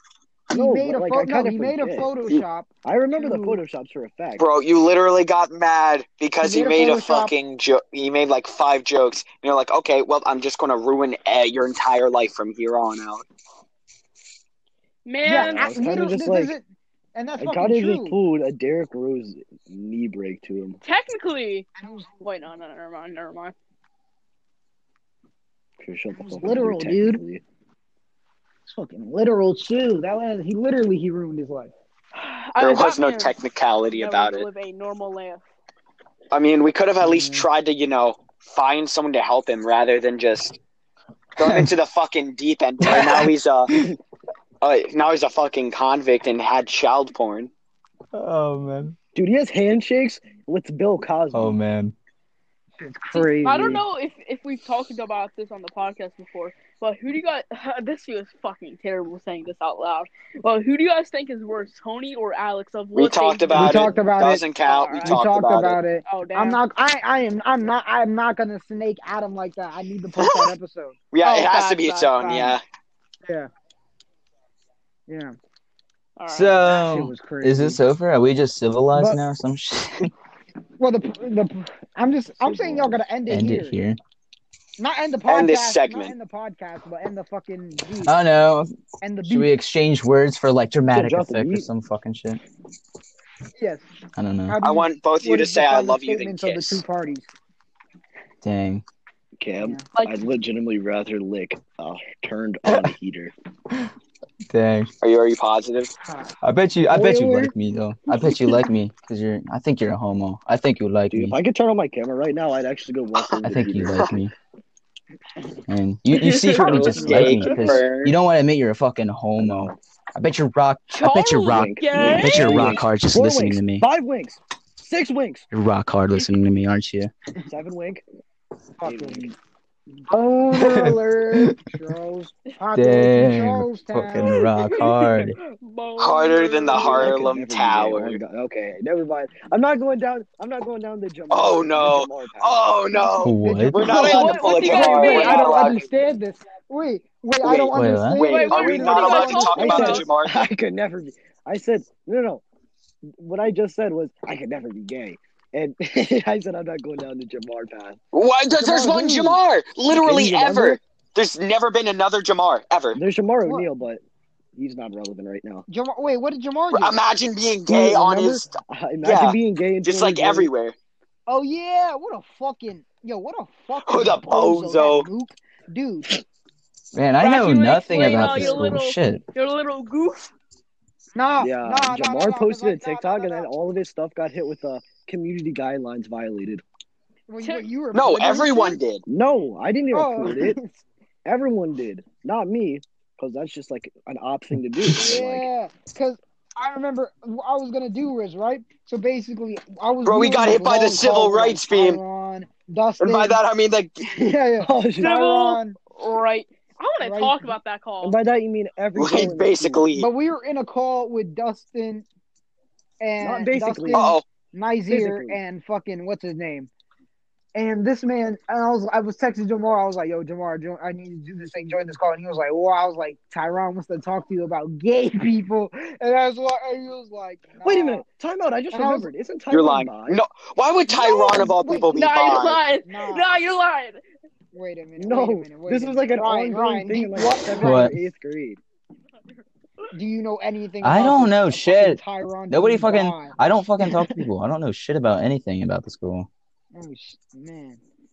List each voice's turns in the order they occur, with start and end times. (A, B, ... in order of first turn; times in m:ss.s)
0:00.5-0:02.1 A
0:00.5-0:03.6 B
0:02.8-0:04.5 A
0:04.4-0:13.2 C
0:06.4-0:07.3 B
0:15.1-0:15.7 D
0:15.2-0:18.2 B
0:15.3-0:16.5 A
0:17.4-0:20.8 A
0:20.8-0:21.7 D
0:21.8-0:22.2 B
0:22.2-0:23.5 D
0:25.8-0:27.4 A
0:26.2-0:27.2 B
0:28.7-0:31.7 B
0:32.1-0:33.3 D
0:32.6-0:34.5 C
0:33.9-0:35.4 D
0:36.3-0:40.6 C
0:37.0-0:37.5 B
0:41.4-0:43.7 C
0:41.4-0:41.7 E
0:42.8-0:44.0 E
0:44.6-0:47.5 C
0:48.1-0:49.0 E
0:49.2-0:51.6 A
0:51.3-0:51.9 E
0:52.8-0:53.8 B
0:53.2-1:03.9 D
1:03.0-1:05.8 C
1:03.5-1:04.4 B
1:04.6-1:05.2 D
1:05.0-1:11.0 B
1:06.1-1:06.6 D
1:10.2-1:10.5 C
1:11.1-1:12.6 C
1:11.2-1:12.4 D
1:12.2-1:12.6 B
1:15.1-1:15.4 B
1:16.2-1:16.6 D
1:16.3-1:20.1 E
1:16.7-1:17.8 B
1:18.9-1:19.2 B
1:20.8-1:23.8 B
1:22.4-1:23.0 A
1:23.3-1:24.0 E
1:24.8-1:28.2 B
1:25.3-1:26.1 C
1:28.0-1:28.7 E
1:29.0-1:29.5 B
1:29.2-1:32.4 E
1:30.9-1:31.7 A
1:33.6-1:33.8 B
1:34.2-1:34.6 E
1:34.5-1:37.3 B
1:34.6-1:36.8 C
1:38.4-1:38.8 E
1:39.4-1:43.3 A
1:39.6-1:39.8 B
1:40.0-1:40.2 D
1:44.5-1:44.9 E
1:45.0-1:45.9 C
1:46.4-1:51.4 E
1:46.9-1:47.5 B
1:51.1-1:54.2 A
1:53.4-1:54.3 E
1:55.7-2:03.9 E
1:56.2-1:56.8 D
1:56.6-1:58.2 C
1:56.7-1:57.5 B
1:59.4-1:59.8 A
2:00.9-2:02.8 D
2:01.5-2:05.5 A
2:05.5-2:07.1 E
2:07.5-2:08.0 A
2:08.8-2:09.4 B
2:08.8-2:09.3 A
2:10.1-2:14.4 B
2:10.6-2:11.6 E
2:12.7-2:15.4 E
2:14.2-2:17.2 D
2:16.0-2:18.2 C
2:16.7-2:22.6 A
2:21.3-2:25.8 C
2:23.2-2:23.9 E
2:23.4-2:30.1 B
2:23.8-2:25.8 D
2:27.4-2:30.5 C
2:27.7-2:28.3 E
2:28.3-2:30.1 D
2:29.6-2:32.4 A
2:33.2-2:38.0 A
2:38.1-2:43.0 C
2:38.5-2:39.4 B
2:39.9-2:40.8 A
2:43.0-2:44.0 A
2:44.6-2:45.7 A
2:45.7-2:47.0 B
2:46.7-2:50.8 C
2:47.7-2:48.4 B
2:48.7-2:50.5 A
2:51.3-2:56.1 B
2:53.9-2:55.1 C
2:56.9-2:59.2 E
2:57.2-3:00.3 D
2:58.0-2:58.6 A
2:58.1-2:58.4 B
3:01.2-3:03.5 B
3:01.4-3:06.6 A
3:07.3-3:08.8 B
3:07.4-3:07.7 D
3:07.9-3:09.0 C
3:09.1-3:10.6 A
3:09.9-3:10.8 B
3:11.3-3:15.5 A
3:15.0-3:23.4 B
3:20.0-3:22.0 C
3:23.0-3:24.0 C
3:24.0-3:25.8 B
3:24.6-3:25.2 A
3:25.0-3:28.2 D
3:27.0-3:27.6 B
3:28.0-3:29.9 A
3:29.0-3:30.1 C
3:30.0-3:32.1 B
3:33.0-3:36.7 B
3:33.2-3:34.1 A
3:33.9-3:34.2 C
3:34.9-3:35.4 A
3:37.6-3:48.0 B
3:47.6-3:50.2 A
3:48.7-3:49.1 B
3:49.5-3:52.6 C
3:50.9-3:52.1 B
3:51.9-3:54.0 D
3:52.8-3:53.3 B
3:54.5-3:57.9 B
3:55.0-3:58.6 A
3:57.6-3:57.9 E
3:59.9-4:03.4 B
4:00.8-4:06.3 E
4:06.7-4:07.8 B